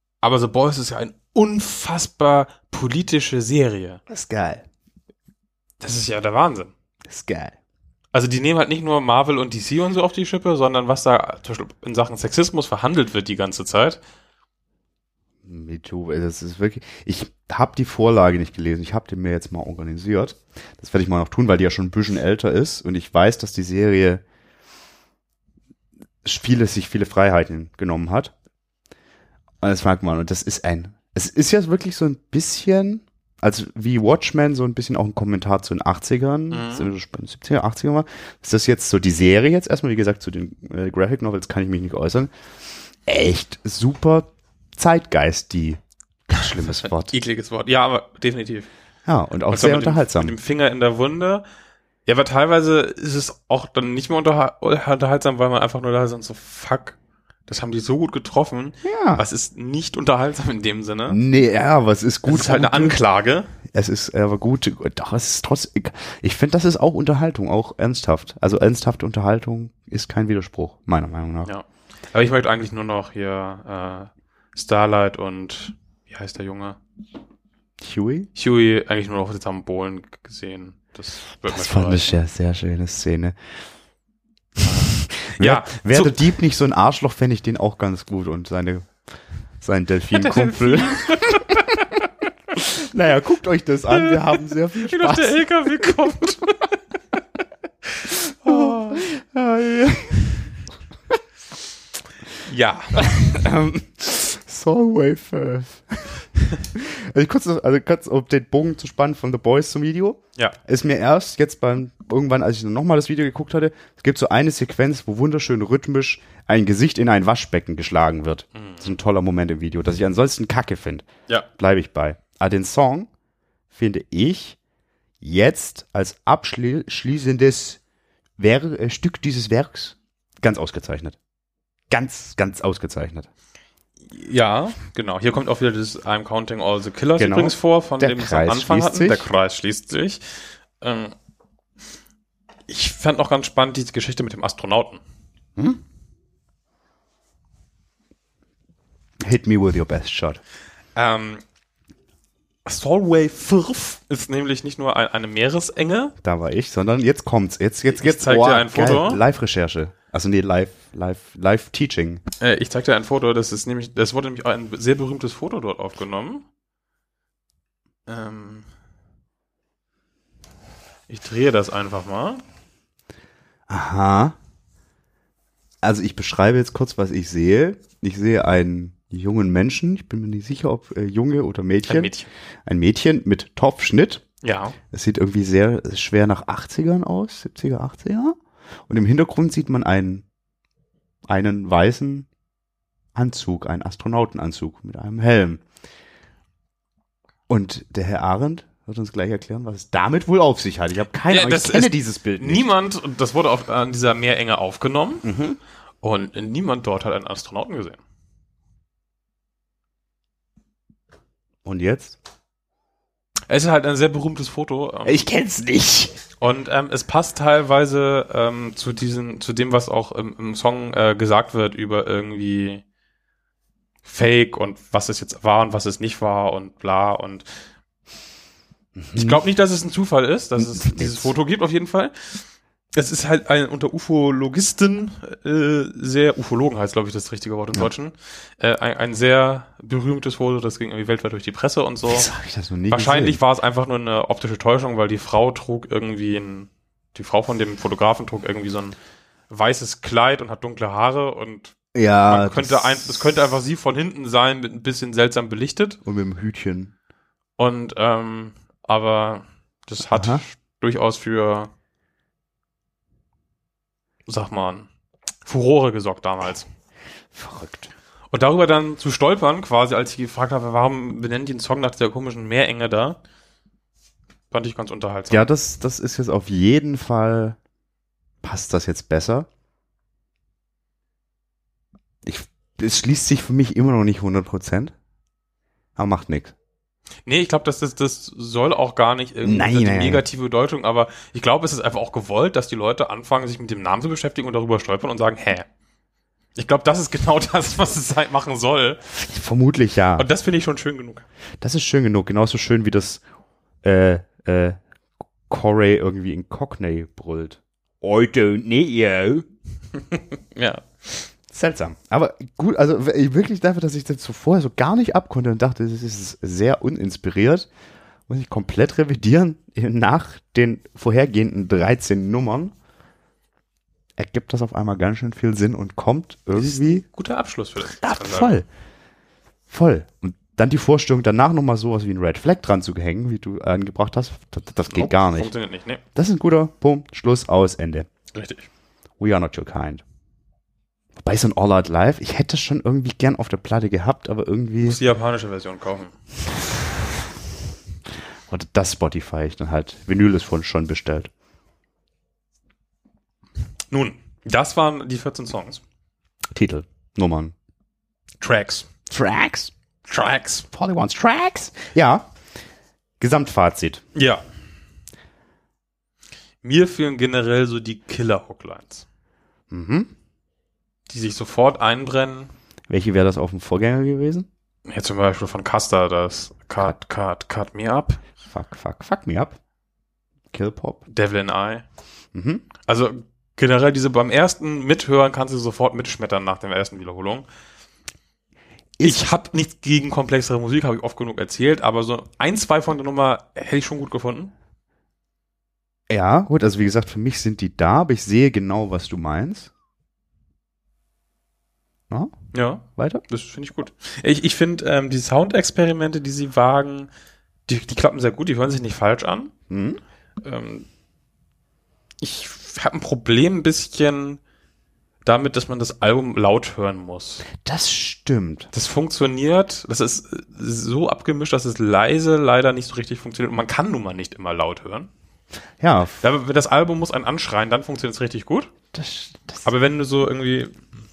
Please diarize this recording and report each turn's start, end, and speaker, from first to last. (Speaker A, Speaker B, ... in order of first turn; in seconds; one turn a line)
Speaker A: 0.2-4.0
Speaker B: 4.1-4.7
Speaker A: 5.8-6.7
Speaker B: 7.1-7.6
Speaker A: 8.1-14.0
Speaker B: 15.4-24.2
Speaker B: 26.2-28.3
Speaker B: 29.6-42.3
Speaker A: 36.5-36.9
Speaker B: 43.0-47.1
Speaker A: 46.8-48.7
Speaker B: 49.1-50.4
Speaker A: 49.5-51.4
Speaker A: 52.1-61.2
Speaker B: 58.8-59.2
Speaker B: 61.1-63.0
Speaker A: 62.3-63.5
Speaker B: 63.7-71.5
Speaker A: 71.5-76.8
Speaker B: 77.8-78.3
Speaker A: 78.3-82.2
Speaker B: 81.5-83.4
Speaker A: 84.6-86.2
Speaker B: 85.0-88.9
Speaker B: 89.6-91.8
Speaker A: 90.1-91.9
Speaker B: 92.6-96.0
Speaker A: 93.9-96.7
Speaker A: 98.0-99.1
Speaker B: 98.1-100.5
Speaker A: 102.4-103.4
Speaker B: 103.0-121.1
Speaker A: 118.5-118.9
Speaker B: 121.6-123.1
Speaker B: 123.7-124.6
Speaker B: 125.2-127.8
Speaker B: 128.4-131.2
Speaker B: 131.9-133.3
Speaker A: 134.1-141.1
Speaker B: 137.2-139.3
Speaker A: 142.7-145.0
Speaker B: 149.2-150.4
Speaker A: 150.9-151.4
Speaker A: 152.7-156.2
Speaker B: 156.2-162.2
Speaker A: 157.9-159.2
Speaker A: 162.4-166.5
Speaker A: 168.1-168.7
Speaker A: 171.1-172.4
Speaker B: 173.7-174.3
Speaker B: 175.8-182.1
Speaker A: 181.9-182.3
Speaker B: 182.7-184.2
Speaker A: 184.4-184.8
Speaker B: 184.9-188.3
Speaker B: 188.9-190.2
Speaker B: 191.3-192.3
Speaker B: 193.2-195.6
Speaker B: 197.5-202.7
Speaker A: 201.3-205.3
Speaker B: 205.2-205.6
Speaker A: 206.0-208.0
Speaker B: 211.7-212.2
Speaker A: 213.5-215.2
Speaker B: 215.1-216.2
Speaker A: 216.4-222.8
Speaker A: 224.1-227.5
Speaker B: 229.0-229.4
Speaker A: 229.1-242.3
Speaker B: 230.6-231.3
Speaker B: 242.1-243.4
Speaker A: 242.9-249.0
Speaker A: 249.5-251.7
Speaker B: 251.9-253.1
Speaker A: 252.3-256.0
Speaker B: 256.1-256.9
Speaker A: 257.6-261.7
Speaker B: 260.1-260.4
Speaker A: 264.3-264.9
Speaker A: 265.5-266.7
Speaker B: 267.3-267.9
Speaker A: 268.3-273.2
Speaker A: 274.5-275.5
Speaker B: 275.3-277.6
Speaker B: 278.4-279.5
Speaker B: 282.2-284.9
Speaker B: 286.0-286.5
Speaker A: 287.3-295.7
Speaker B: 289.4-290.2
Speaker A: 296.6-299.0
Speaker B: 299.1-300.3
Speaker A: 300.2-301.2
Speaker B: 301.6-303.2
Speaker B: 303.8-304.8
Speaker B: 305.5-309.5
Speaker A: 310.1-311.3
Speaker B: 311.5-317.7
Speaker B: 318.3-322.7
Speaker B: 324.2-327.1
Speaker A: 326.5-328.6
Speaker B: 327.8-328.7
Speaker B: 329.7-335.5
Speaker A: 334.9-336.0
Speaker B: 336.1-338.1
Speaker A: 338.3-338.7
Speaker B: 339.2-340.0
Speaker B: 341.2-345.0
Speaker A: 344.8-346.1
Speaker B: 348.5-351.3
Speaker A: 353.9-355.8
Speaker B: 356.5-357.5
Speaker A: 358.4-358.9
Speaker B: 359.1-359.7
Speaker A: 360.1-360.7
Speaker B: 360.7-362.3
Speaker B: 363.2-364.0
Speaker A: 364.1-364.4
Speaker A: 366.6-369.0
Speaker B: 369.7-370.1
Speaker A: 371.1-372.5
Speaker B: 372.9-374.5
Speaker A: 374.9-378.2
Speaker B: 378.5-379.6
Speaker B: 380.5-381.0
Speaker A: 381.1-381.9
Speaker B: 382.3-382.7
Speaker A: 382.8-387.5
Speaker B: 389.0-389.2
Speaker A: 389.0-394.5
Speaker B: 396.1-399.7
Speaker A: 402.5-407.1
Speaker B: 403.0-403.2
Speaker A: 407.7-409.5
Speaker B: 409.7-410.0
Speaker A: 410.4-410.9
Speaker A: 412.2-414.4
Speaker A: 415.2-417.5
Speaker B: 417.6-418.7
Speaker A: 418.7-425.1
Speaker B: 425.8-426.2
Speaker A: 426.2-428.7
Speaker B: 428.9-429.7
Speaker A: 429.6-430.7